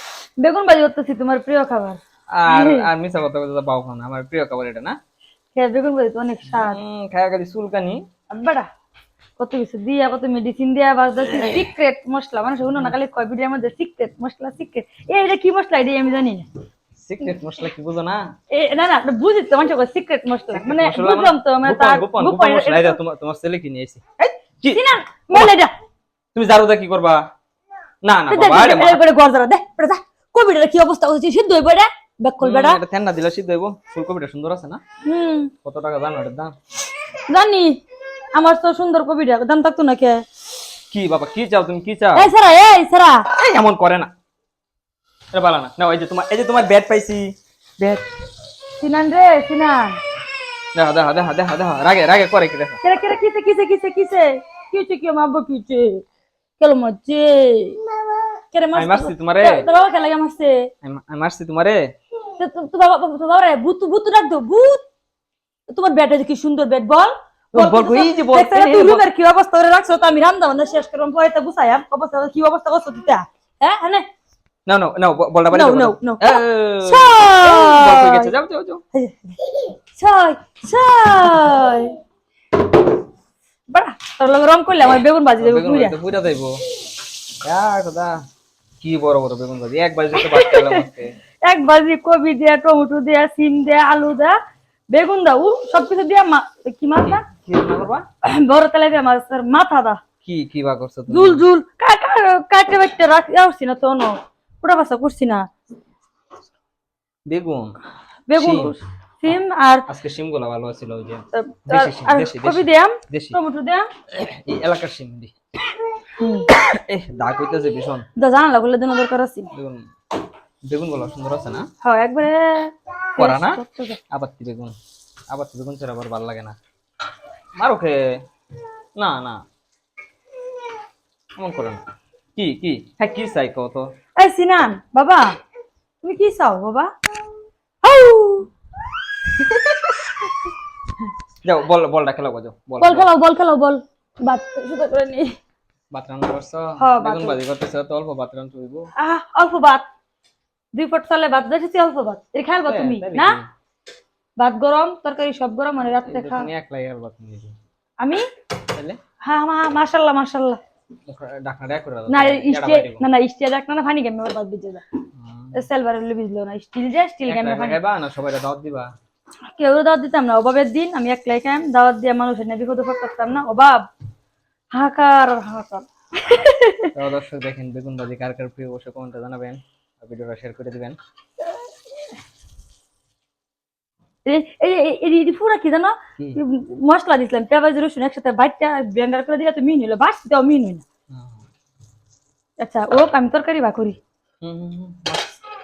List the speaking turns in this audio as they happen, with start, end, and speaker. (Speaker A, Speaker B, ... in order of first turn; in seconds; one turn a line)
Speaker A: 0.4-2.9
Speaker B: 2.3-5.0
Speaker A: 5.5-6.8
Speaker B: 6.5-8.0
Speaker A: 8.3-8.7
Speaker A: 9.4-16.5
Speaker B: 17.0-18.3
Speaker A: 18.5-23.0
Speaker B: 20.5-25.5
Speaker A: 24.7-25.7
Speaker B: 26.3-27.2
Speaker B: 28.0-29.0
Speaker A: 28.3-32.8
Speaker B: 32.4-34.8
Speaker A: 35.0-35.5
Speaker B: 35.6-36.5
Speaker A: 37.1-37.8
Speaker A: 38.3-40.2
Speaker B: 40.9-42.3
Speaker A: 42.1-43.2
Speaker B: 43.3-44.1
Speaker B: 45.3-48.0
Speaker A: 48.8-50.0
Speaker B: 50.7-52.8
Speaker A: 52.8-56.0
Speaker A: 56.6-57.8
Speaker A: 58.5-60.7
Speaker B: 58.7-59.6
Speaker B: 60.8-61.9
Speaker A: 62.4-64.8
Speaker A: 65.7-74.0
Speaker B: 67.5-69.0
Speaker B: 74.7-78.8
Speaker A: 75.5-78.3
Speaker A: 78.9-82.0
Speaker A: 83.7-86.0
Speaker B: 85.4-86.6
Speaker B: 87.4-88.2
Speaker B: 88.8-91.2
Speaker A: 90.1-90.8
Speaker A: 91.4-94.3
Speaker A: 94.9-97.2
Speaker B: 97.0-98.0
Speaker A: 98.2-100.0
Speaker B: 100.2-101.4
Speaker A: 101.1-105.4
Speaker B: 107.3-107.8
Speaker A: 108.3-109.8
Speaker B: 108.3-108.7
Speaker B: 109.9-113.4
Speaker A: 111.3-113.9
Speaker B: 114.1-115.3
Speaker A: 116.2-116.5
Speaker B: 116.7-118.0
Speaker A: 118.2-119.5
Speaker B: 119.5-119.8
Speaker B: 120.7-121.7
Speaker A: 121.8-124.0
Speaker B: 123.2-123.6
Speaker B: 124.1-124.7
Speaker B: 125.3-126.5
Speaker B: 127.6-128.2
Speaker B: 129.0-129.4
Speaker B: 131.4-131.8
Speaker B: 132.3-133.9
Speaker A: 134.2-135.3
Speaker A: 136.0-136.9
Speaker A: 137.8-138.5
Speaker B: 141.4-143.1
Speaker A: 142.8-145.3
Speaker B: 145.9-148.9
Speaker A: 146.8-147.4
Speaker A: 149.0-149.8
Speaker A: 150.7-153.4
Speaker B: 152.7-153.4
Speaker A: 154.4-156.5
Speaker B: 156.1-157.5
Speaker A: 158.0-158.2
Speaker B: 158.7-159.0
Speaker A: 159.2-160.6
Speaker B: 161.1-163.0
Speaker A: 162.1-164.8
Speaker B: 165.2-165.6
Speaker A: 165.5-167.8
Speaker B: 167.3-168.9
Speaker A: 169.5-173.9
Speaker A: 174.7-176.9
Speaker B: 176.9-181.0
Speaker A: 184.2-190.8
Speaker B: 191.1-191.4
Speaker A: 192.6-194.0
Speaker B: 194.4-195.4